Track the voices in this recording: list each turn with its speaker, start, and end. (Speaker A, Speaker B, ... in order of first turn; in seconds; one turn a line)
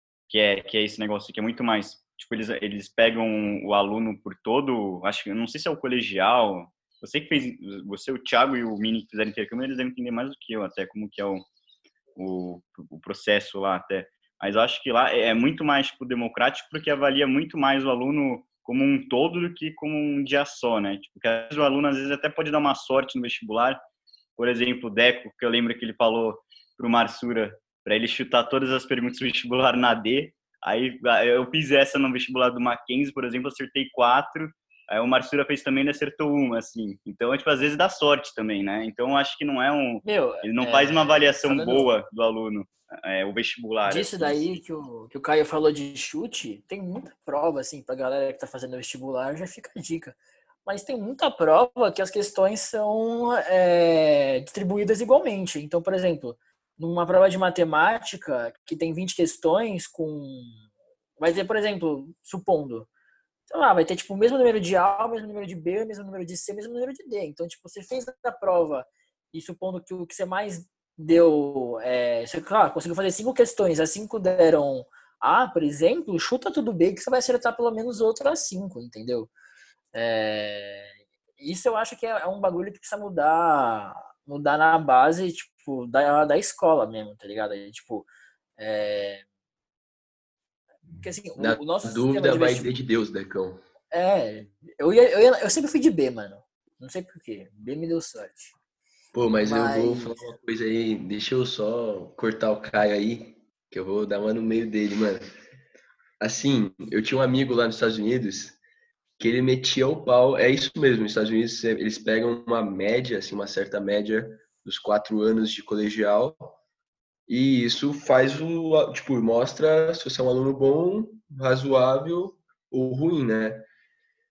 Speaker A: 0.3-11.4
Speaker A: 12.2-23.8
Speaker A: 24.4-44.6
Speaker B: 40.0-41.9
Speaker B: 43.9-60.6
Speaker B: 61.2-62.9
Speaker B: 63.5-79.3
Speaker B: 79.9-89.2
Speaker B: 91.0-92.7
Speaker C: 91.4-93.6
Speaker B: 93.9-98.5
Speaker C: 99.1-105.4
Speaker B: 99.4-100.2
Speaker C: 106.2-108.6
Speaker C: 109.2-116.6
Speaker C: 117.3-123.7